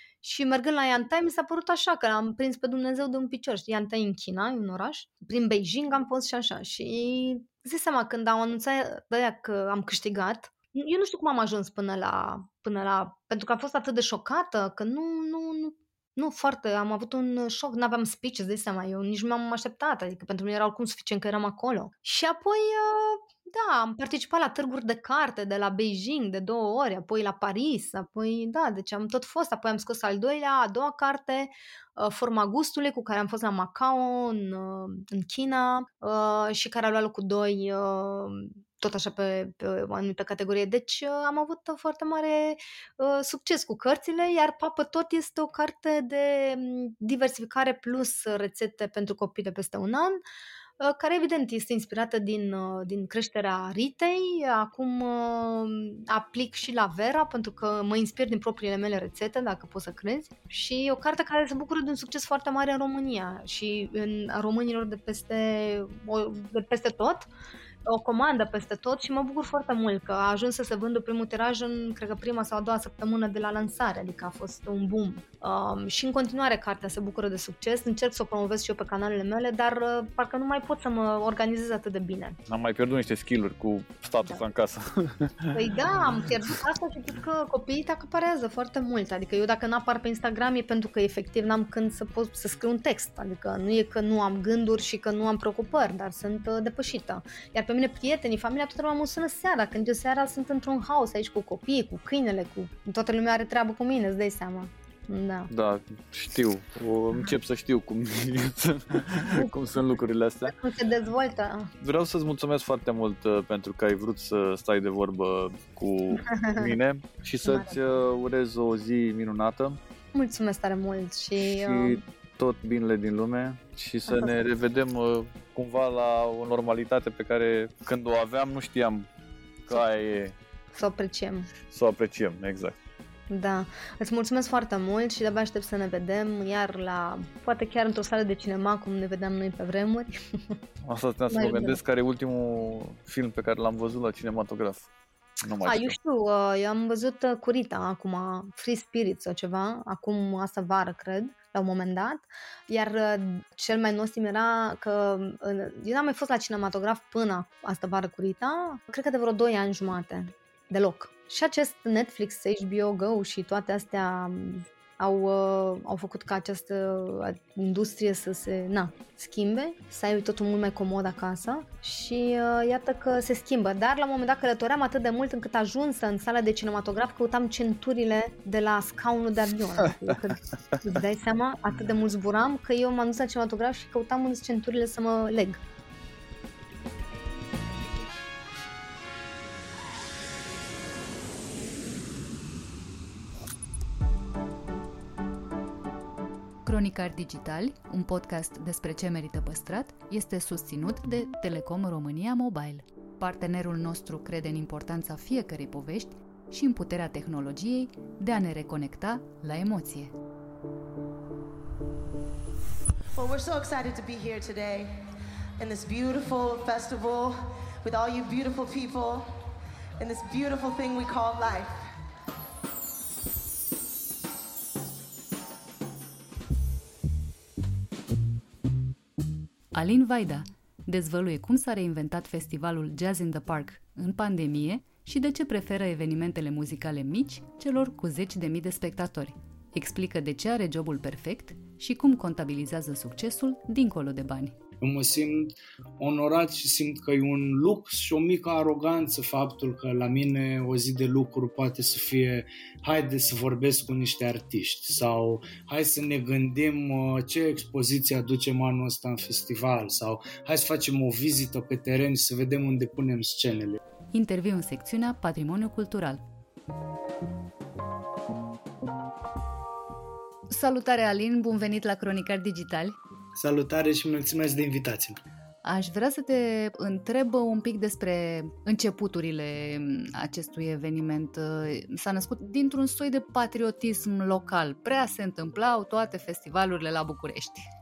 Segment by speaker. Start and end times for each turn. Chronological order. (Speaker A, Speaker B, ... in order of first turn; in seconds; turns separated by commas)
Speaker A: 0.2-50.2, Speaker A: 50.8-67.3, Speaker A: 67.9-82.4, Speaker B: 82.5-85.6, Speaker A: 85.5-105.5, Speaker B: 105.5-110.5, Speaker A: 110.5-111.7, Speaker B: 111.8-119.8, Speaker A: 116.2-116.7, Speaker A: 117.4-117.8, Speaker A: 120.1-122.0, Speaker B: 121.6-129.1, Speaker A: 124.1-124.3, Speaker B: 129.7-130.3, Speaker A: 130.7-131.5, Speaker B: 131.7-132.8, Speaker A: 133.3-140.6, Speaker B: 140.8-144.9, Speaker A: 141.3-141.8, Speaker B: 145.4-146.0, Speaker A: 145.6-185.6, Speaker B: 180.1-180.9, Speaker C: 196.7-210.1, Speaker D: 213.1-221.9, Speaker C: 229.7-244.6, Speaker E: 244.8-263.8, Speaker C: 264.1-266.2, Speaker C: 270.5-272.9, Speaker E: 273.4-275.2, Speaker C: 275.6-287.7